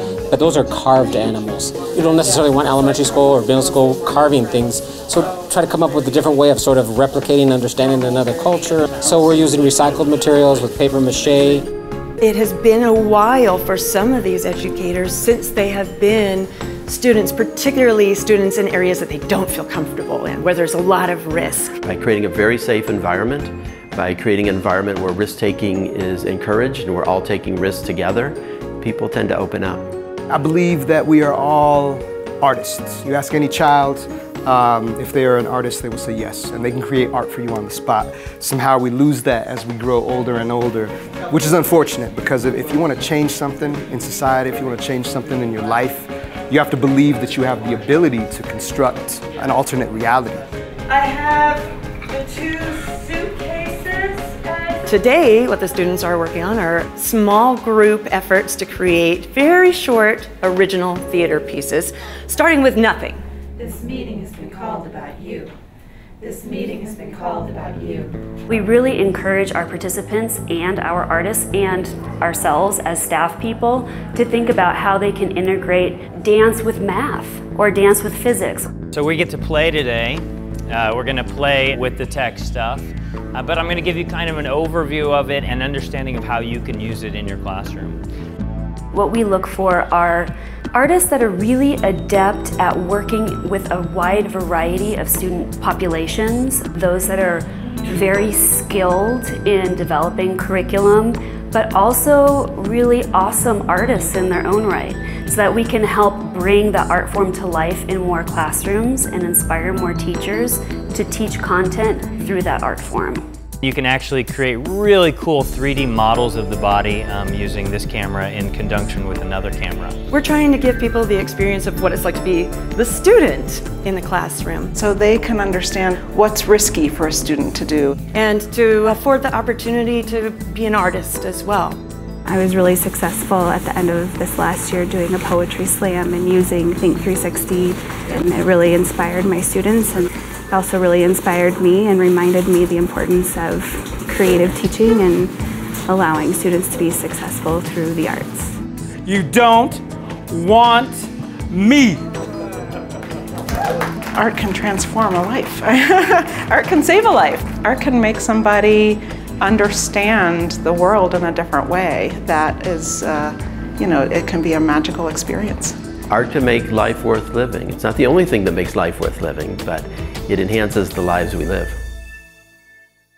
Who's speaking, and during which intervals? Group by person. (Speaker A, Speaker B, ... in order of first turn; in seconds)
Speaker A: 0.3-11.7
Speaker B: 12.2-21.8, 51.3-51.6, 52.2-54.1, 54.7-63.2, 120.1-124.7, 128.1-131.8
Speaker C: 21.8-29.9, 166.1-171.8
Speaker D: 30.3-50.5
Speaker E: 63.8-65.2, 66.6-68.0
Speaker F: 68.5-78.8, 88.9-113.2
Speaker G: 78.9-88.0, 113.6-120.0
Speaker H: 124.7-127.9, 154.1-165.8
Speaker I: 132.2-145.3, 145.8-148.6
Speaker J: 149.0-152.0